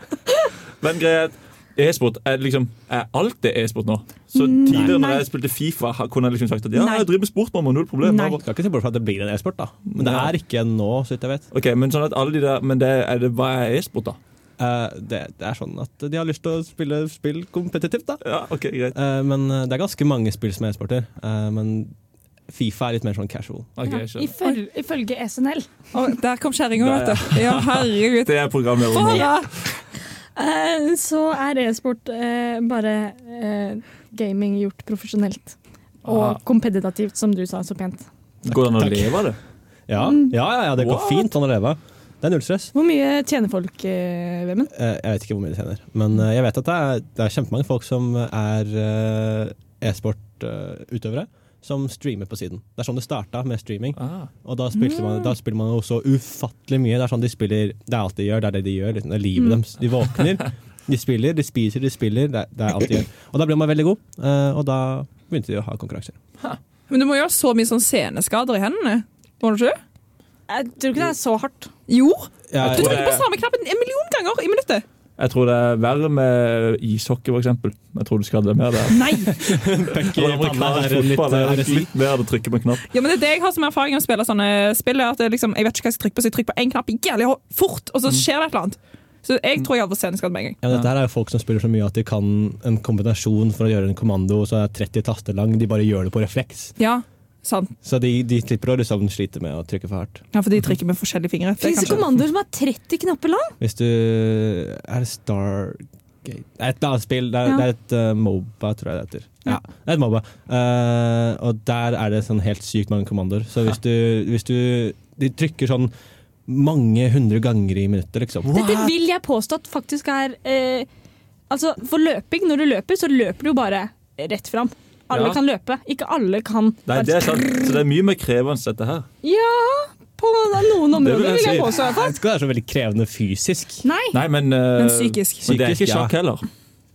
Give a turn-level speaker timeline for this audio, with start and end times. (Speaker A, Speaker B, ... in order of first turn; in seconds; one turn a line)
Speaker A: 0.8-8.4
Speaker B: 4.3-5.2
Speaker C: 4.7-5.0
Speaker B: 6.8-7.0
Speaker C: 8.1-11.4
Speaker A: 9.9-10.3
Speaker A: 11.5-14.2
Speaker C: 14.6-18.2
Speaker A: 18.2-18.9
Speaker C: 18.9-21.9
Speaker C: 22.5-23.7
Speaker A: 23.8-24.3
Speaker B: 23.9-25.7
Speaker D: 25.9-28.3
Speaker A: 26.8-29.5
Speaker D: 28.9-29.5
Speaker B: 28.9-29.5
Speaker B: 30.4-38.0
Speaker A: 36.1-36.4
Speaker A: 38.4-39.4
Speaker C: 38.5-39.3
Speaker C: 39.9-42.7
Speaker B: 40.0-40.3
Speaker A: 40.7-41.3
Speaker B: 42.7-44.7
Speaker C: 44.7-66.2
Speaker A: 54.0-54.3
Speaker B: 54.9-55.2
Speaker D: 66.9-69.8
Speaker B: 70.5-71.7
Speaker D: 71.9-74.8
Speaker C: 72.5-73.2
Speaker A: 72.6-73.2
Speaker A: 75.2-82.9
Speaker D: 78.9-79.3
Speaker C: 79.2-81.9
Speaker D: 82.9-90.6
Speaker C: 90.6-96.7
Speaker D: 96.8-97.7
Speaker C: 97.8-100.2
Speaker D: 100.3-102.0
Speaker B: 101.6-103.5
Speaker C: 103.6-115.9
Speaker C: 116.5-118.8
Speaker A: 118.5-118.9
Speaker B: 118.5-120.9
Speaker B: 121.5-127.7
Speaker A: 125.1-125.4
Speaker A: 126.9-129.1
Speaker B: 129.2-132.1
Speaker A: 130.9-131.7
Speaker C: 131.8-133.8
Speaker B: 133.8-134.2
Speaker A: 134.1-136.4
Speaker D: 134.8-135.5
Speaker C: 135.4-136.1